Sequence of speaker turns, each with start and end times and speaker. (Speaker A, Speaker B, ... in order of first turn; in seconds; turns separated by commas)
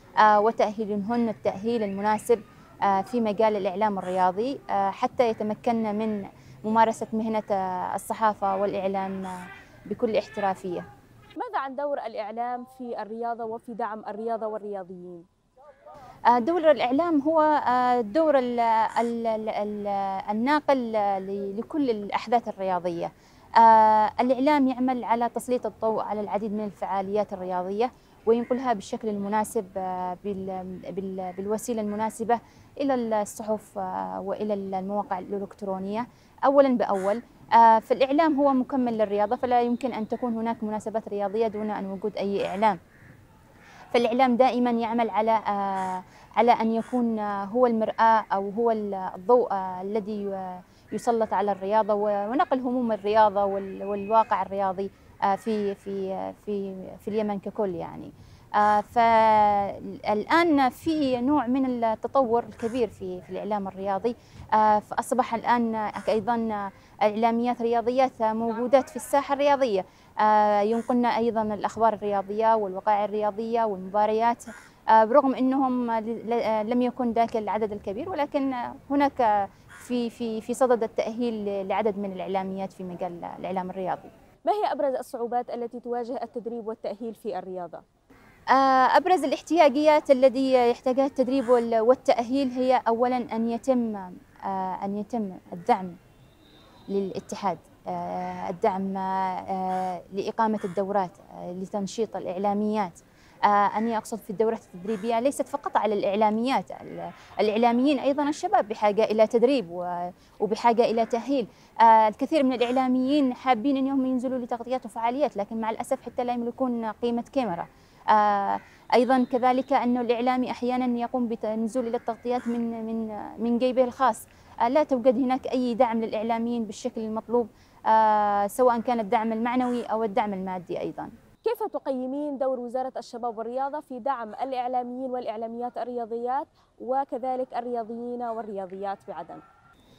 Speaker A: 0.2-10.9, Speaker B: 11.4-15.3, Speaker A: 16.3-42.8, Speaker A: 43.9-84.1, Speaker B: 84.5-87.8, Speaker A: 88.5-96.0, Speaker A: 96.9-131.1, Speaker B: 131.4-139.4